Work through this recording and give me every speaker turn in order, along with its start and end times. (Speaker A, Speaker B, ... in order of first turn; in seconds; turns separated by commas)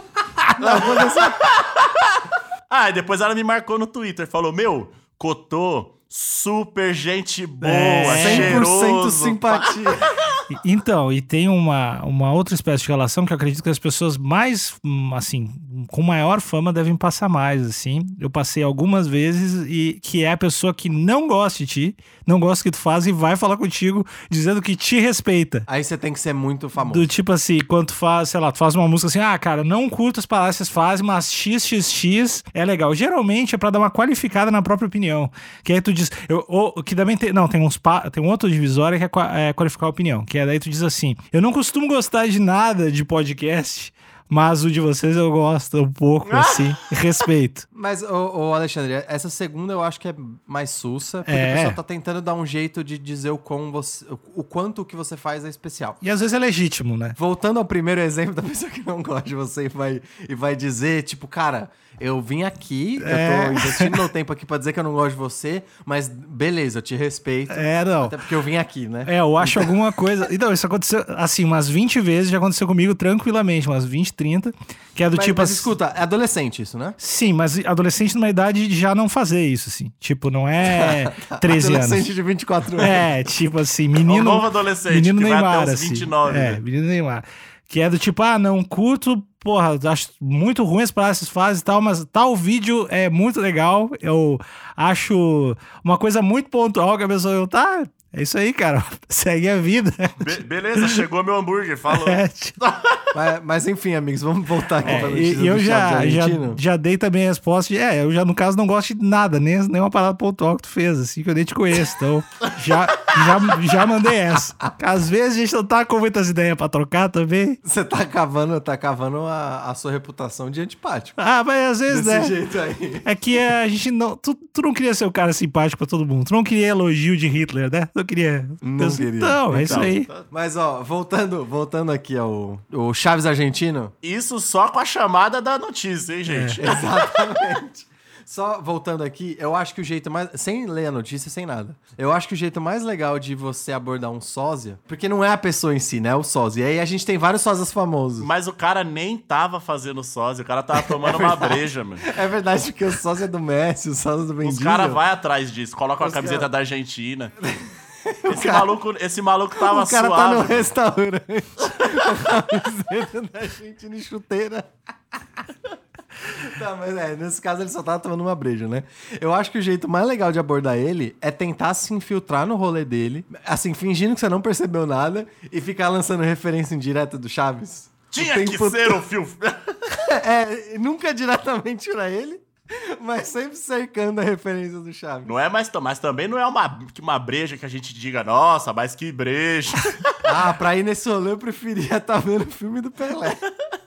Speaker A: 0.5-10.4, Speaker B: 0.6-1.4, Speaker C: 7.6-8.6, Speaker B: 8.1-10.1, Speaker C: 10.5-25.7, Speaker B: 25.7-27.1, Speaker C: 26.8-47.7, Speaker A: 46.2-46.8, Speaker B: 47.7-56.0, Speaker C: 51.2-51.8, Speaker C: 56.0-57.2, Speaker B: 57.2-69.8, Speaker C: 63.0-64.0, Speaker C: 67.5-68.2, Speaker C: 69.1-75.7, Speaker B: 75.1-77.0, Speaker C: 77.0-82.1, Speaker B: 80.6-83.1, Speaker C: 82.8-101.0, Speaker A: 84.0-86.6, Speaker A: 100.2-103.1, Speaker C: 101.9-102.6, Speaker B: 103.1-106.6, Speaker C: 104.8-117.6, Speaker B: 114.3-114.7, Speaker B: 117.6-121.2, Speaker C: 121.2-122.3, Speaker B: 121.9-123.1, Speaker C: 123.0-130.1, Speaker B: 128.6-133.9, Speaker A: 129.5-130.2, Speaker A: 134.0-136.9, Speaker C: 136.3-136.6, Speaker B: 136.6-148.3, Speaker A: 148.2-152.1, Speaker B: 150.8-155.0, Speaker A: 154.4-157.4, Speaker B: 156.0-156.5, Speaker B: 157.4-158.7, Speaker A: 158.3-160.7, Speaker B: 159.6-164.7, Speaker B: 166.2-179.0, Speaker A: 178.1-179.7, Speaker B: 179.9-185.3, Speaker A: 185.2-190.2, Speaker B: 190.2-193.4